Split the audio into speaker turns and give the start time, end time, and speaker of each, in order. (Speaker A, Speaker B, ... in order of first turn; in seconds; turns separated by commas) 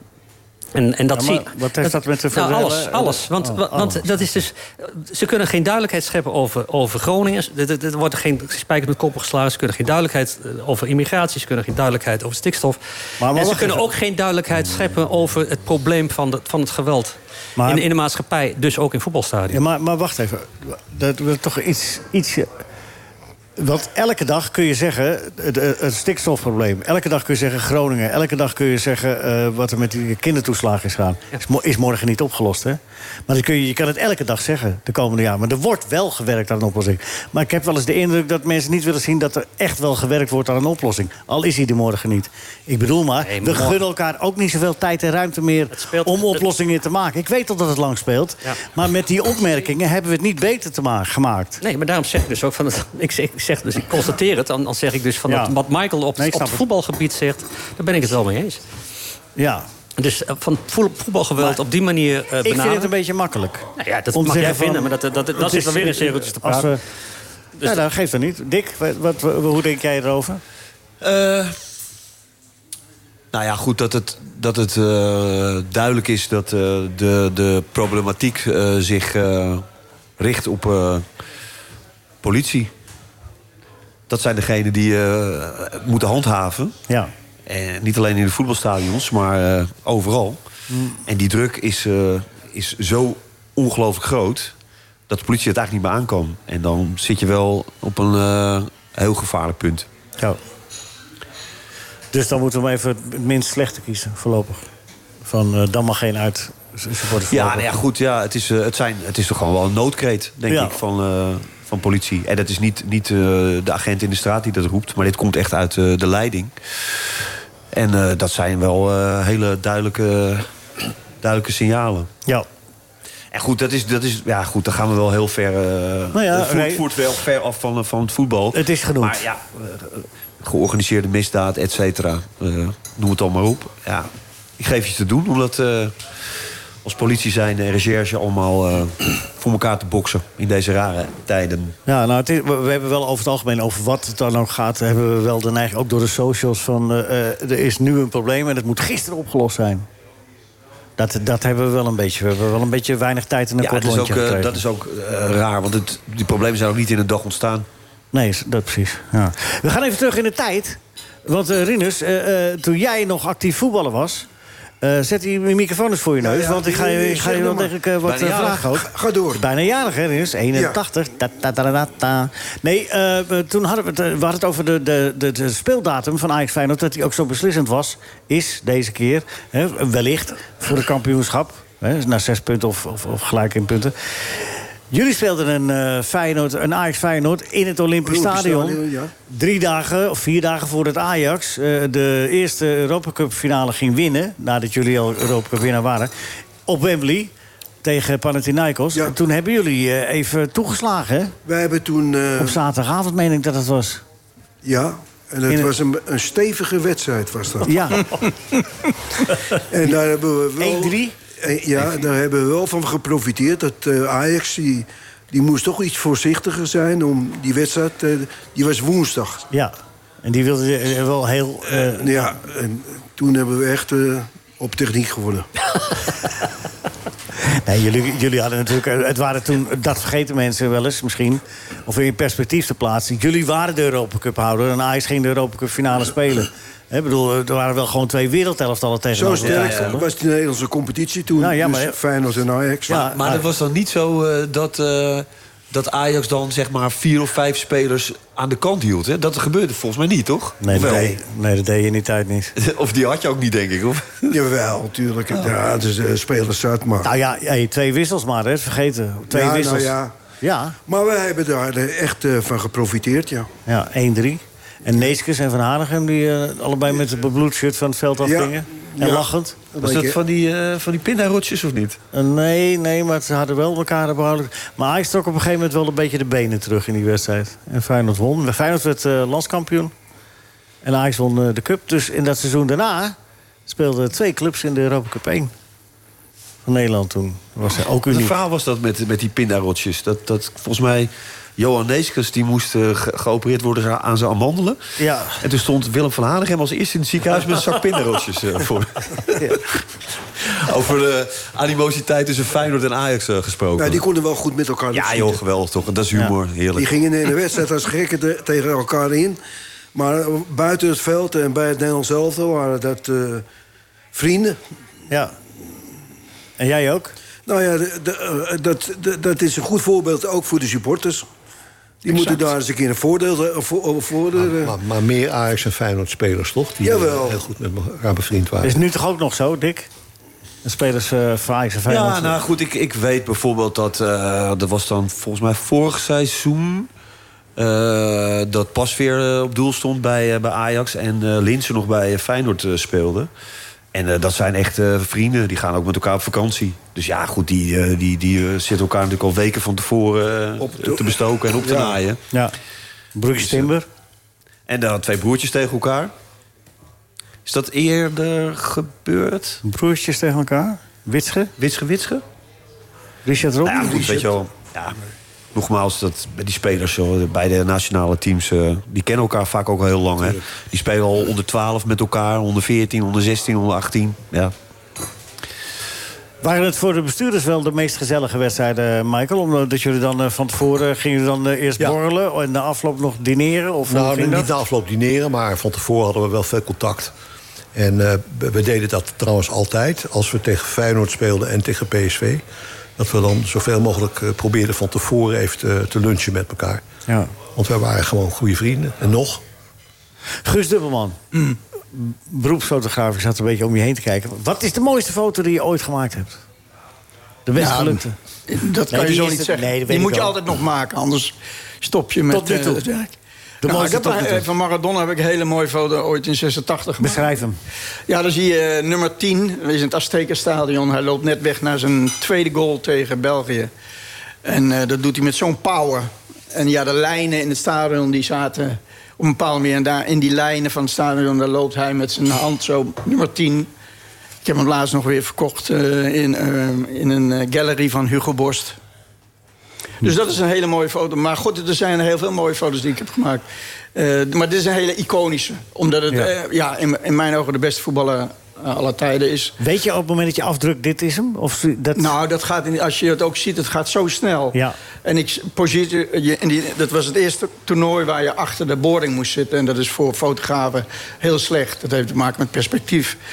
Speaker A: 0.7-19.6, Speaker B: 1.1-4.2, Speaker B: 13.2-13.9, Speaker B: 17.6-17.9, Speaker B: 19.5-22.5, Speaker B: 23.6-51.6, Speaker A: 43.2-43.8, Speaker A: 45.7-46.4, Speaker A: 51.6-58.6, Speaker B: 55.3-55.5, Speaker B: 56.2-56.6, Speaker B: 59.4-59.7, Speaker A: 60.0-62.9, Speaker B: 62.4-66.8, Speaker A: 63.8-66.7, Speaker B: 67.6-70.4, Speaker C: 71.0-71.5, Speaker C: 73.3-79.6, Speaker C: 80.2-81.0, Speaker C: 82.2-82.7, Speaker C: 84.1-86.8, Speaker C: 87.5-90.4, Speaker B: 90.7-91.0, Speaker C: 91.0-94.5, Speaker C: 95.1-99.9, Speaker B: 102.1-104.7, Speaker B: 105.2-107.7, Speaker C: 107.3-116.5, Speaker B: 110.5-110.8, Speaker C: 117.7-122.1, Speaker C: 123.3-135.9, Speaker B: 126.1-126.8, Speaker B: 128.5-129.2, Speaker C: 136.8-141.8, Speaker B: 141.8-149.9, Speaker B: 151.0-154.6, Speaker C: 153.6-157.7, Speaker B: 158.1-164.3, Speaker B: 164.8-196.1, Speaker D: 166.2-167.7, Speaker C: 168.0-168.7, Speaker D: 168.8-169.4, Speaker D: 188.0-189.1, Speaker B: 196.6-201.3, Speaker D: 201.4-202.6, Speaker B: 202.4-204.0, Speaker D: 204.6-207.8, Speaker B: 205.5-205.7, Speaker B: 207.6-208.1, Speaker D: 209.7-219.4, Speaker B: 210.6-211.2, Speaker B: 219.5-222.3, Speaker D: 221.8-225.5, Speaker B: 227.4-240.1, Speaker D: 239.1-243.0, Speaker C: 239.3-240.0, Speaker B: 241.4-242.0, Speaker C: 242.9-251.2, Speaker B: 242.9-243.4, Speaker B: 250.6-252.5, Speaker C: 252.6-254.3, Speaker D: 254.3-257.1, Speaker B: 257.0-260.8, Speaker D: 259.3-260.1, Speaker D: 260.9-263.5, Speaker B: 263.7-269.6, Speaker D: 268.2-270.2, Speaker C: 269.8-272.0, Speaker B: 272.1-279.9, Speaker B: 280.8-285.5, Speaker B: 286.6-288.4, Speaker C: 288.1-294.8, Speaker B: 295.0-295.4, Speaker C: 295.4-299.8, Speaker C: 300.4-304.0, Speaker D: 303.8-305.4, Speaker C: 304.9-306.9, Speaker D: 306.7-309.4, Speaker D: 309.9-313.4, Speaker D: 314.1-314.6, Speaker B: 315.1-315.3, Speaker B: 316.6-317.1, Speaker D: 317.4-321.2, Speaker D: 322.0-324.7, Speaker E: 324.4-328.8, Speaker D: 326.8-327.4, Speaker B: 328.6-329.9, Speaker B: 330.6-332.4, Speaker C: 331.8-336.9, Speaker C: 337.6-343.3, Speaker C: 343.9-352.2, Speaker D: 350.7-352.0, Speaker B: 353.1-353.9, Speaker C: 353.4-353.7, Speaker C: 354.7-356.1, Speaker C: 357.4-359.6, Speaker B: 359.6-361.5, Speaker C: 361.6-362.2, Speaker B: 363.2-364.1, Speaker C: 363.6-364.9, Speaker D: 363.8-364.3, Speaker C: 365.5-374.5, Speaker B: 376.4-384.5, Speaker E: 383.9-387.1, Speaker E: 387.7-392.4, Speaker E: 393.0-396.8, Speaker B: 397.1-397.3, Speaker E: 397.5-399.4, Speaker B: 400.4-401.2, Speaker B: 401.9-406.4, Speaker B: 407.4-408.1, Speaker F: 407.5-417.3, Speaker B: 408.9-410.3, Speaker B: 412.3-412.8, Speaker B: 413.6-414.5, Speaker B: 417.0-417.6, Speaker F: 418.1-423.7, Speaker F: 424.4-433.7, Speaker F: 434.4-438.8, Speaker F: 440.0-443.4, Speaker F: 443.9-449.6, Speaker B: 449.6-452.1, Speaker F: 451.9-463.2